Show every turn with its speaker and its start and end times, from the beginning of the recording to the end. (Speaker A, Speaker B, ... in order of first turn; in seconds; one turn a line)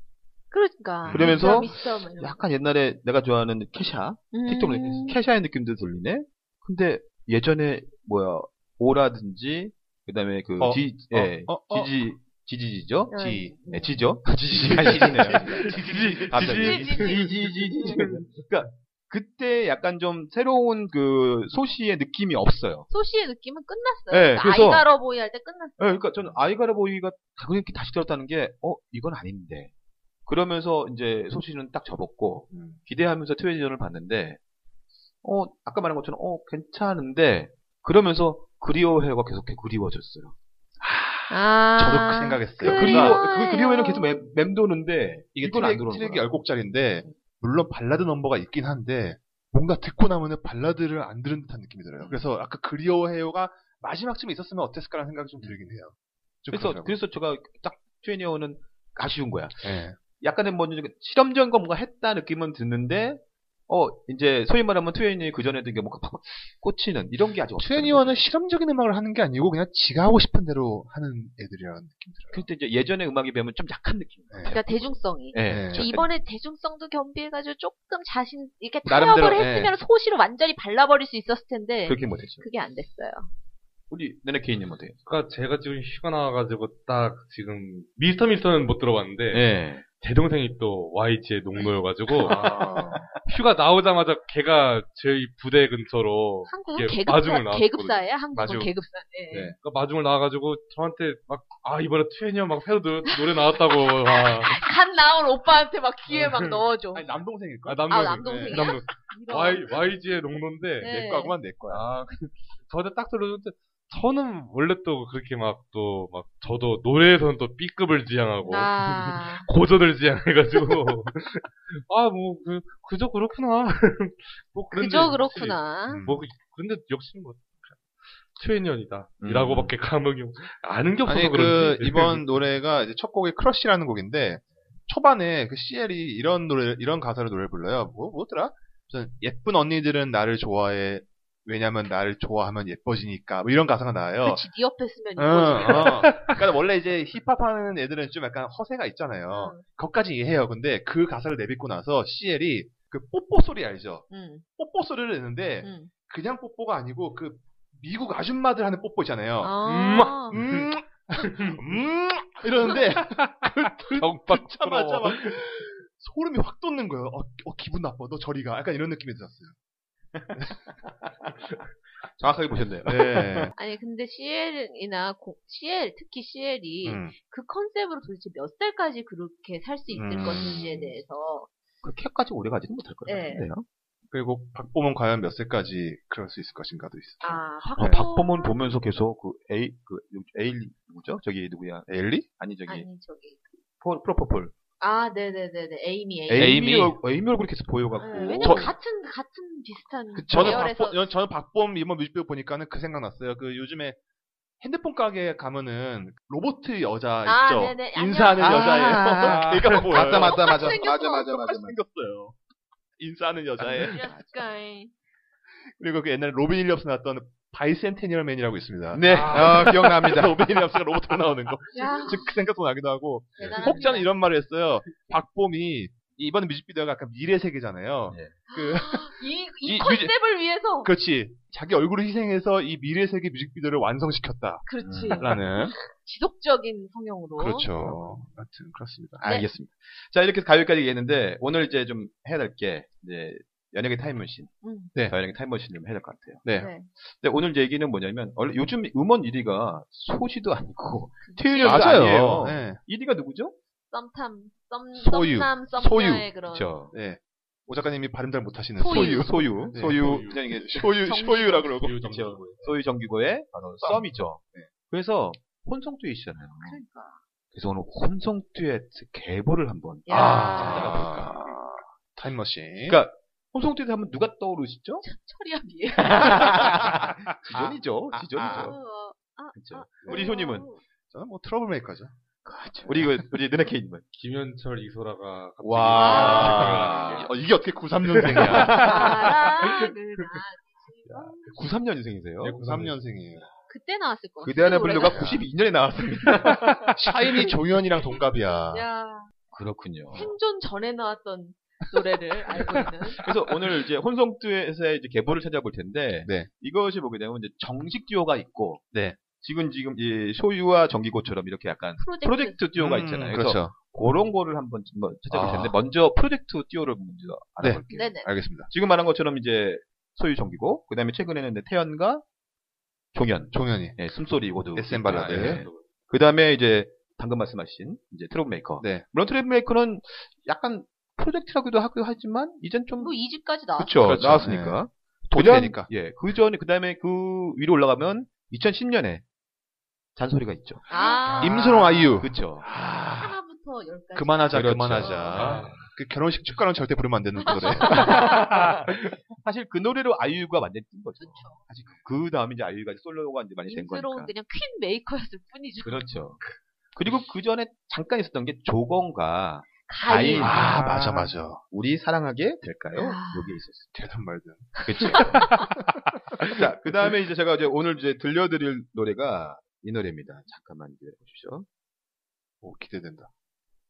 Speaker A: 0.5-2.4
Speaker B: 1.0-1.7
Speaker C: 1.1-13.1
Speaker A: 4.3-5.2
Speaker B: 10.6-11.9
Speaker A: 13.1-14.0
Speaker B: 13.1-13.7
Speaker C: 13.7-22.9
Speaker B: 14.3-17.0
Speaker D: 15.6-17.2
Speaker A: 16.6-17.9
Speaker A: 22.9-25.9
Speaker C: 24.1-24.9
Speaker C: 25.8-29.7
Speaker C: 30.2-34.4
Speaker B: 32.5-32.8
Speaker C: 35.2-40.3
Speaker B: 40.8-43.2
Speaker A: 41.3-44.1
Speaker C: 42.6-46.2
Speaker B: 45.4-57.0
Speaker C: 56.5-68.1
Speaker B: 59.6-60.0
Speaker B: 67.6-72.5
Speaker C: 72.3-76.1
Speaker A: 74.4-83.3
Speaker B: 75.4-75.9
Speaker B: 78.8-79.7
Speaker C: 81.8-82.4
Speaker C: 83.9-85.0
Speaker D: 85.0-98.7
Speaker C: 89.3-89.8
Speaker B: 92.2-93.1
Speaker A: 96.5-99.5
Speaker B: 99.3-99.5
Speaker D: 99.6-104.5
Speaker A: 104.0-107.1
Speaker D: 106.1-106.6
Speaker B: 106.9-108.7
Speaker D: 107.7-110.9
Speaker A: 107.9-109.7
Speaker A: 110.8-111.3
Speaker B: 110.8-111.8
Speaker D: 111.7-132.4
Speaker A: 118.5-119.5
Speaker A: 124.7-126.0
Speaker B: 125.9-126.3
Speaker C: 129.2-129.7
Speaker B: 131.1-144.4
Speaker A: 144.2-146.1
Speaker B: 145.2-154.1
Speaker D: 146.0-146.3
Speaker A: 149.3-149.6
Speaker A: 154.1-154.4
Speaker B: 154.6-159.6
Speaker A: 155.6-155.9
Speaker A: 159.4-160.3
Speaker D: 159.6-160.7
Speaker B: 160.3-169.5
Speaker D: 161.3-161.6
Speaker D: 162.8-165.4
Speaker C: 170.1-171.3
Speaker C: 172.2-173.5
Speaker B: 172.8-173.5
Speaker A: 173.6-181.5
Speaker B: 176.8-177.1
Speaker B: 179.9-180.9
Speaker C: 180.3-180.7
Speaker C: 181.8-183.7
Speaker A: 183.1-183.5
Speaker B: 184.1-188.0
Speaker A: 187.2-188.6
Speaker C: 187.8-192.9
Speaker B: 191.9-192.3
Speaker A: 192.7-193.4
Speaker C: 193.8-194.5
Speaker A: 194.8-196.6
Speaker C: 196.3-198.7
Speaker B: 196.3-197.0
Speaker A: 198.0-201.1
Speaker B: 198.3-198.7
Speaker C: 200.1-200.7
Speaker B: 200.2-204.0
Speaker B: 204.6-212.3
Speaker A: 207.2-209.2
Speaker C: 208.4-211.8
Speaker D: 209.3-209.7
Speaker A: 210.1-211.5
Speaker B: 213.0-214.1
Speaker C: 213.6-214.2
Speaker A: 213.8-214.9
Speaker B: 215.7-230.1
Speaker C: 218.9-220.4
Speaker D: 219.0-219.7
Speaker A: 221.7-222.3
Speaker A: 223.4-224.1
Speaker C: 223.4-223.8
Speaker C: 228.1-228.3
Speaker A: 228.5-230.9
Speaker B: 230.8-235.7
Speaker A: 234.7-237.7
Speaker C: 234.8-235.3
Speaker B: 237.4-239.2
Speaker A: 239.2-239.5
Speaker C: 239.2-244.5
Speaker A: 244.6-244.9
Speaker C: 245.1-253.5
Speaker B: 246.4-246.7
Speaker A: 246.6-246.9
Speaker A: 251.2-252.1
Speaker B: 251.6-252.8
Speaker A: 253.9-256.7
Speaker B: 254.9-256.3
Speaker C: 256.5-256.9
Speaker B: 256.9-262.3
Speaker A: 258.8-259.7
Speaker C: 258.9-260.9
Speaker D: 259.9-260.4
Speaker A: 260.8-261.8
Speaker D: 261.8-262.7
Speaker C: 262.0-266.8
Speaker B: 263.8-264.7
Speaker A: 266.6-267.2
Speaker C: 267.5-271.4
Speaker A: 270.1-271.0
Speaker B: 270.1-273.0
Speaker C: 272.9-275.0
Speaker A: 275.0-276.7
Speaker C: 276.0-278.8
Speaker B: 276.6-278.7
Speaker A: 278.4-280.8
Speaker C: 279.5-280.7
Speaker B: 280.0-280.3
Speaker B: 281.1-282.1
Speaker C: 282.5-284.0
Speaker B: 282.6-283.2
Speaker D: 284.1-287.3
Speaker C: 285.6-287.2
Speaker B: 285.9-289.2
Speaker A: 286.0-286.6
Speaker D: 288.1-288.9
Speaker C: 288.2-289.2
Speaker A: 288.7-291.6
Speaker C: 291.1-292.6
Speaker D: 292.4-293.0
Speaker B: 292.5-293.5
Speaker A: 293.7-295.3
Speaker C: 294.4-296.9
Speaker B: 295.0-295.4
Speaker B: 296.9-298.8
Speaker A: 298.7-299.3
Speaker C: 299.5-300.3
Speaker A: 300.1-303.2
Speaker C: 303.2-318.1
Speaker B: 308.9-309.2
Speaker A: 312.0-312.6
Speaker B: 312.7-313.7
Speaker B: 315.3-315.7
Speaker B: 317.6-318.7
Speaker A: 317.9-318.3
Speaker C: 318.7-322.2
Speaker C: 323.1-333.1
Speaker B: 323.5-324.0
Speaker B: 324.7-325.7
Speaker D: 325.1-325.8
Speaker B: 328.8-329.1
Speaker A: 333.0-334.0
Speaker C: 333.8-339.2
Speaker B: 334.0-335.9
Speaker C: 340.1-342.7
Speaker A: 340.9-342.1
Speaker B: 341.3-343.4
Speaker A: 343.2-345.4
Speaker B: 344.1-348.4
Speaker C: 344.5-345.8
Speaker D: 345.3-345.9
Speaker A: 347.4-348.4
Speaker C: 347.6-354.3
Speaker A: 351.2-351.6
Speaker A: 353.7-356.2
Speaker C: 355.8-356.4
Speaker C: 356.9-363.9
Speaker A: 359.9-360.7
Speaker B: 360.4-361.6
Speaker A: 362.9-363.6
Speaker B: 363.9-365.8
Speaker C: 364.8-365.7
Speaker A: 365.2-365.5
Speaker C: 366.4-371.7
Speaker B: 372.6-373.3